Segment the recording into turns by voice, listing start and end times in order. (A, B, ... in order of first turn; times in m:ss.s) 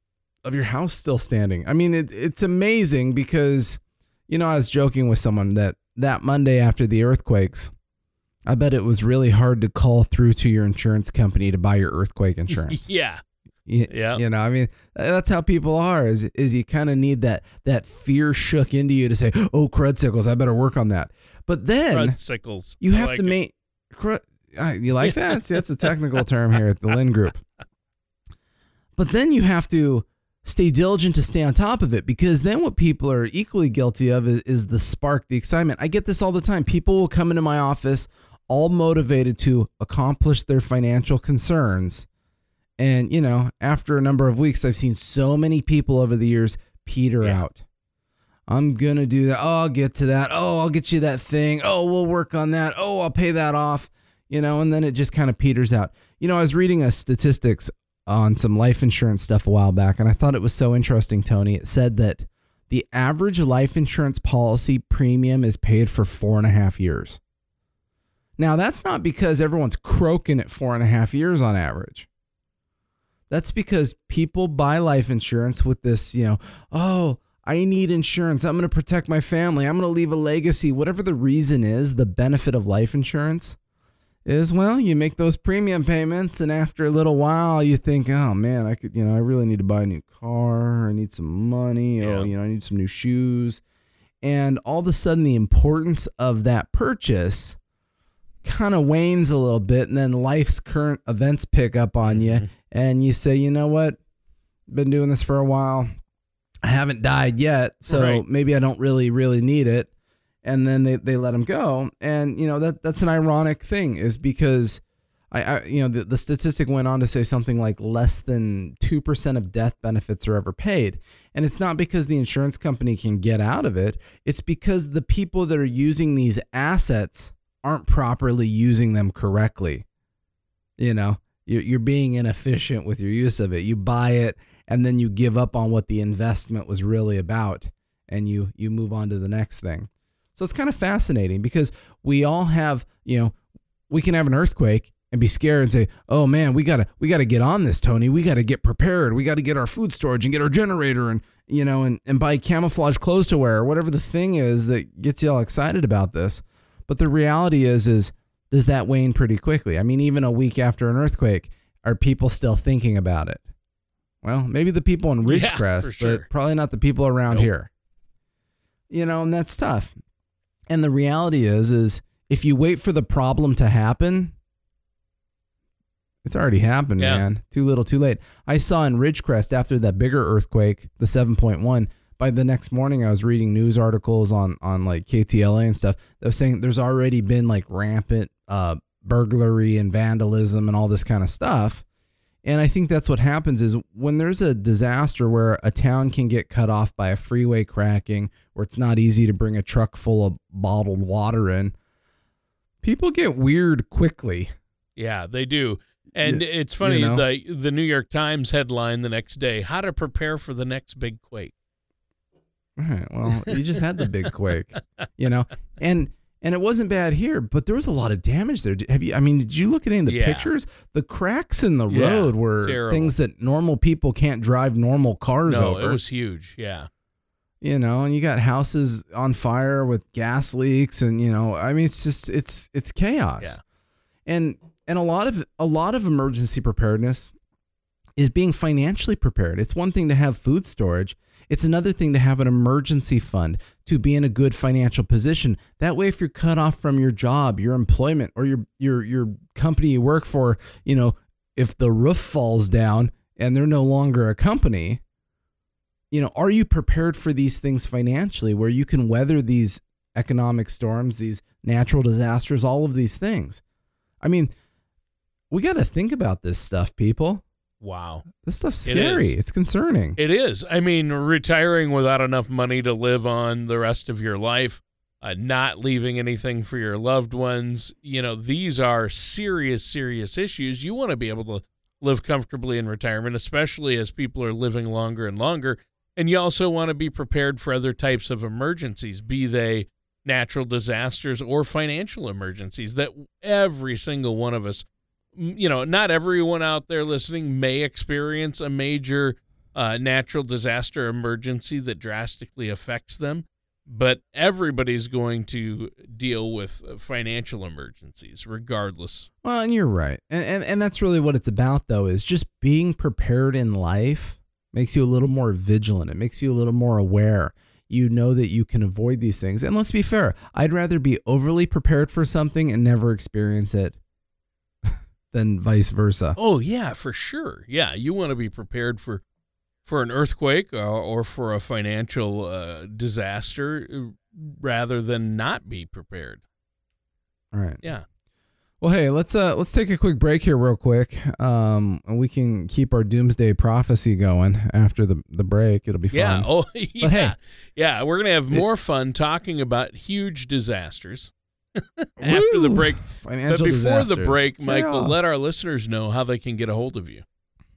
0:00.4-0:07.7 A
0:08.5-0:12.8 A
0:12.5-0:13.2 B
0:13.6-0:22.2 A
0:13.9-0:14.2 B
0:21.9-0:23.3 B
0:22.8-0:27.4 A
0:25.0-0:25.9 B
0:29.0-0:42.0 A
0:42.8-0:47.6 A
0:48.5-1:07.2 A
1:08.4-1:12.1 A
1:13.3-1:23.6 A
1:24.2-1:33.6 A
1:32.0-1:32.3 B
1:34.2-1:37.6 A
1:38.4-1:44.0 A
1:42.0-1:42.5 B
1:44.7-1:45.9 A
1:46.6-1:49.9 A
1:47.9-1:48.2 B
1:50.4-2:09.8 A
2:10.8-2:23.3 A
2:23.9-2:43.4 A
2:44.2-2:47.7 A
2:45.2-2:46.3 B
2:48.9-2:50.0 A
2:50.7-2:54.3 A
2:56.2-3:11.8 A
2:57.0-2:57.2 B
3:12.4-3:21.7 A
3:22.8-3:24.5 A
3:25.0-3:31.5 B
3:26.2-3:27.2 A
3:32.8-3:46.0 A
3:40.0-3:40.5 B
3:41.9-3:43.1 B
3:45.4-3:46.9 B
3:47.6-3:53.6 A
3:54.2-3:57.3 A
3:58.2-4:15.0 A
4:16.1-4:23.6 A
4:24.2-4:24.5 A
4:25.5-4:27.4 A
4:27.8-4:28.2 B
4:28.4-4:30.2 A
4:28.8-4:29.3 B
4:30.2-5:09.3 B
5:09.4-5:24.0 A
5:24.8-5:26.4 A
5:26.4-5:29.2 B
5:29.8-5:36.4 B
5:37.5-5:37.8 A
5:38.8-5:46.5 A
5:46.1-5:57.2 B
5:47.0-5:47.3 A
5:52.2-5:55.2 A